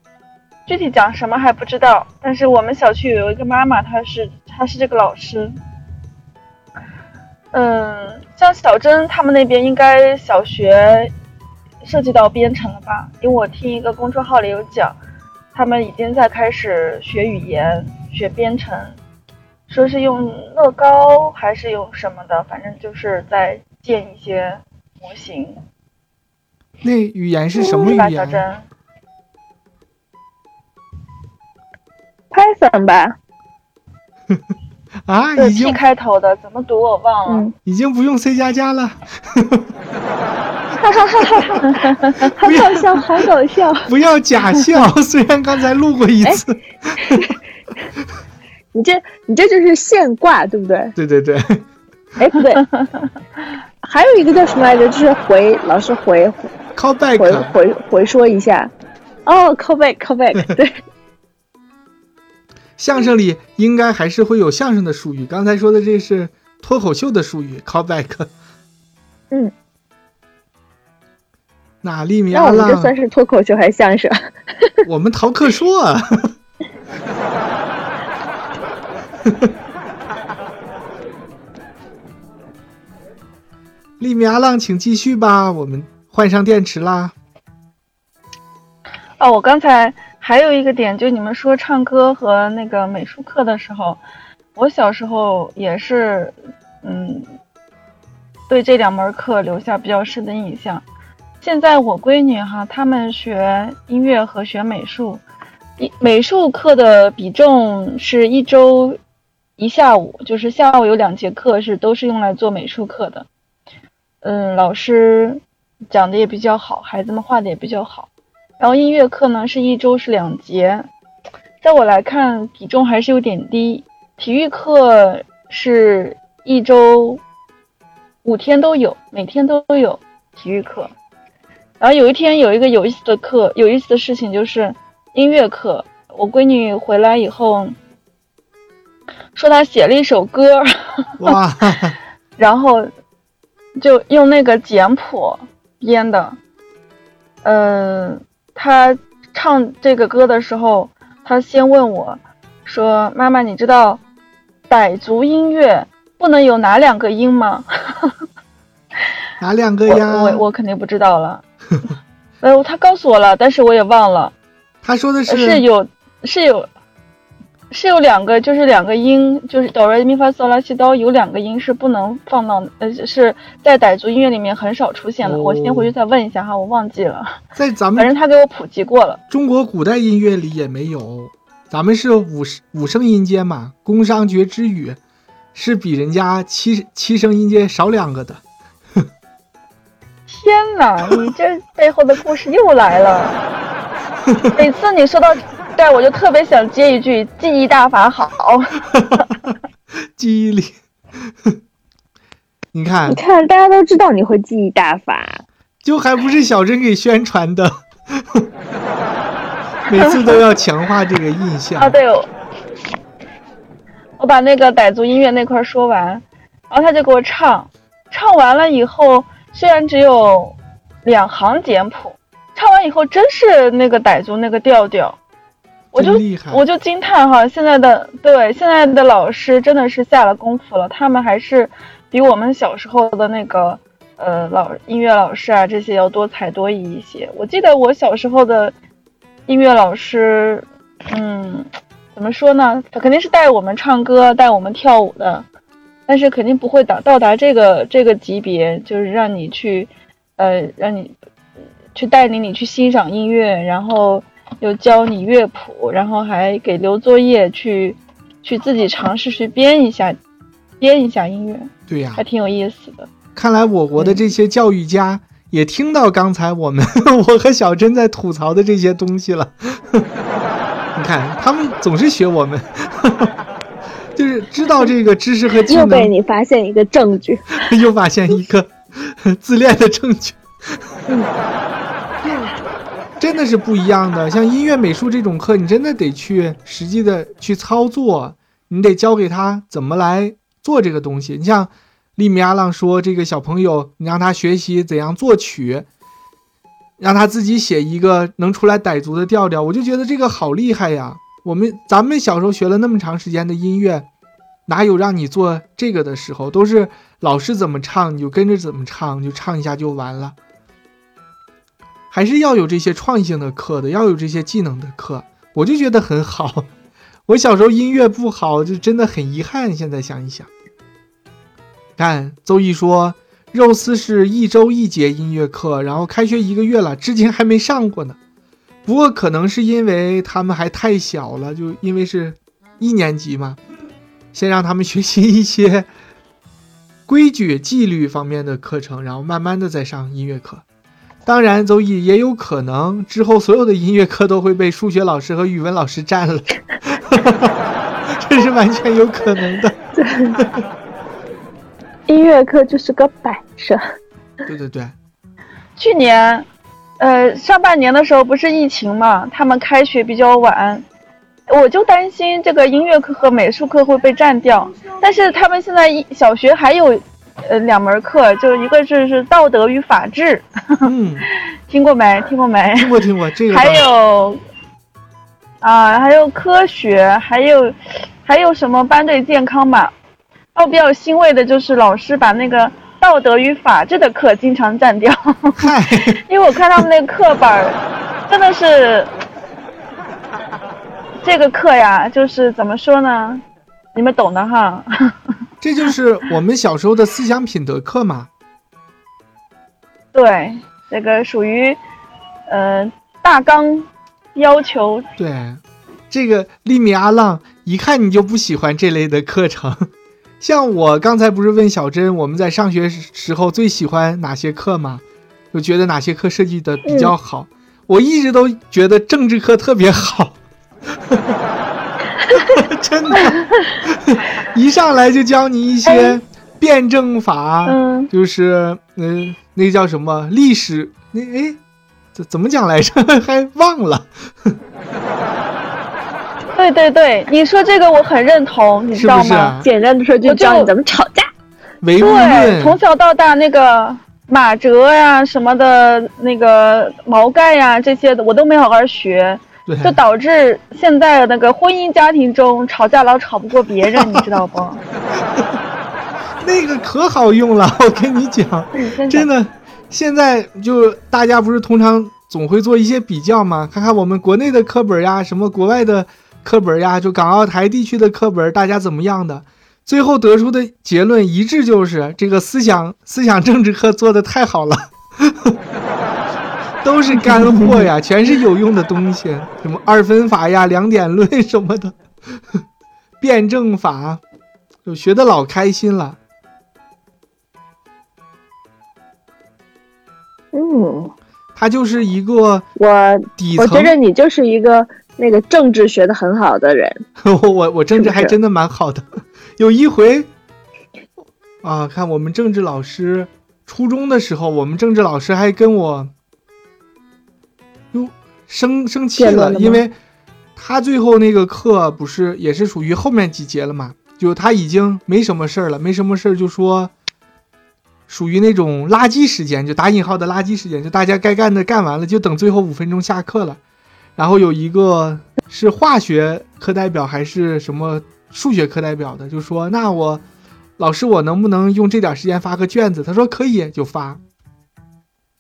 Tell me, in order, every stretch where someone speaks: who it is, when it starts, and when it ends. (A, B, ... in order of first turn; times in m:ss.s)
0:00.7-0:05.5 A
0:07.5-0:11.1 A
0:11.8-0:15.0 A
0:15.5-0:19.0 A
0:19.7-0:25.6 A
0:26.8-0:28.4 B
0:27.6-0:28.6 A
0:32.3-0:33.2 C
0:35.1-0:35.8 B
0:35.4-0:37.5 A
0:37.6-0:39.7 B
0:40.8-0:43.9 C
0:41.2-0:41.7 B
0:41.7-0:42.2 A
0:42.4-0:43.0 B
0:43.9-0:47.3 B
0:47.0-0:47.4 C
0:48.7-0:51.0 C
0:51.0-0:51.7 B
0:52.2-0:52.6 C
0:53.8-0:56.5 C
0:56.8-0:57.5 B
0:57.2-0:58.7 C
0:59.3-1:00.8 C
1:02.8-1:08.3 B
1:11.8-1:12.9 B
1:12.3-1:14.7 C
1:14.9-1:16.3 B
1:19.2-1:19.5 B
1:24.0-1:27.2 B
1:29.2-1:34.0 A
1:34.6-1:37.3 A
1:38.5-1:40.8 A
1:41.4-1:45.2 A
1:45.8-1:49.0 A
1:49.6-1:53.3 A
1:54.2-1:58.1 A
1:58.6-2:00.9 A
2:01.6-2:07.2 A
2:08.2-2:10.9 A
2:11.8-2:17.8 A
2:19.4-2:21.4 A
2:21.2-2:22.0 B
2:22.4-2:22.9 A
2:23.8-2:26.4 A
2:27.4-2:34.0 A
2:34.7-2:38.2 A
2:39.4-2:40.4 B
2:39.9-2:41.4 A
2:42.4-2:44.3 A
2:44.8-2:45.6 B
2:45.3-2:46.7 A
2:47.7-2:57.4 A
2:55.2-2:55.9 B
2:57.6-2:58.1 B
2:58.0-2:59.2 A
2:59.3-3:05.0 B
3:05.5-3:08.4 B
3:10.3-3:13.4 A
3:14.3-3:14.6 B
3:14.6-3:19.2 A
3:18.9-3:19.6 B
3:20.2-3:20.8 B
3:21.3-3:21.6 B
3:22.7-3:23.2 B
3:23.1-3:25.4 C
3:25.8-3:28.5 B
3:29.9-3:32.0 B
3:29.9-3:30.4 A
3:31.8-3:32.3 A
3:34.2-3:45.2 A
3:45.9-3:46.6 B
3:46.0-3:58.7 A
3:59.5-4:05.5 A
4:06.1-4:11.1 A
4:11.9-4:20.2 A
4:20.8-4:23.1 A
4:21.9-4:22.2 B
4:23.4-4:30.1 B
4:31.0-4:33.4 B
4:34.2-4:36.1 B
4:35.7-4:37.7 C
4:37.6-4:40.8 B
4:42.2-4:42.5 C
4:43.2-4:55.9 B
4:57.0-5:04.1 B
5:04.7-5:10.4 B
5:12.1-5:16.7 B
5:17.3-5:20.5 B
5:22.0-5:28.2 B
5:28.8-5:33.6 B
5:34.3-5:35.9 B
5:37.1-5:40.6 B
5:41.2-5:47.6 B
5:48.1-5:49.8 B
5:50.0-5:50.4 C
5:52.1-5:53.8 C
5:54.5-5:55.0 B
5:55.8-5:56.5 A
5:57.0-6:00.8 A
6:01.5-6:10.9 A
6:10.8-6:11.3 B
6:11.7-6:14.4 A
6:12.8-6:13.9 B
6:15.6-6:19.9 A
6:20.6-6:27.8 A
6:25.6-6:26.9 B
6:28.3-6:29.1 A
6:31.2-6:33.4 A
6:34.0-6:34.9 A
6:35.6-6:38.3 B
6:40.1-6:41.8 A
6:42.5-6:45.1 A
6:45.2-6:49.9 B
6:50.4-7:00.4 B
6:56.9-6:57.1 C
7:00.9-7:01.4 B
7:02.3-7:11.6 B
7:05.9-7:06.2 A
7:07.7-7:08.1 A
7:12.1-7:14.6 B
7:16.6-7:19.6 A
7:18.9-7:19.7 B
7:19.6-7:21.3 C
7:20.2-7:20.7 A
7:21.8-7:22.8 B
7:22.0-7:34.8 A
7:29.7-7:30.0 B
7:33.9-7:34.2 B
7:35.2-7:35.6 B
7:36.4-7:55.6 B
7:38.8-7:39.3 A
7:56.8-8:02.6 B
7:57.3-7:57.8 C
8:03.2-8:04.2 B
8:04.8-8:06.2 B
8:10.5-8:11.1 C
8:11.6-8:12.7 B
8:12.8-8:17.0 C
8:13.4-8:14.0 B
8:17.2-8:20.3 B
8:18.0-8:18.3 C
8:21.6-8:26.1 B
8:27.9-8:30.0 B
8:29.2-8:29.8 C
8:30.6-8:36.9 B
8:38.1-8:43.6 B
8:44.2-8:50.2 B
8:50.8-8:54.2 B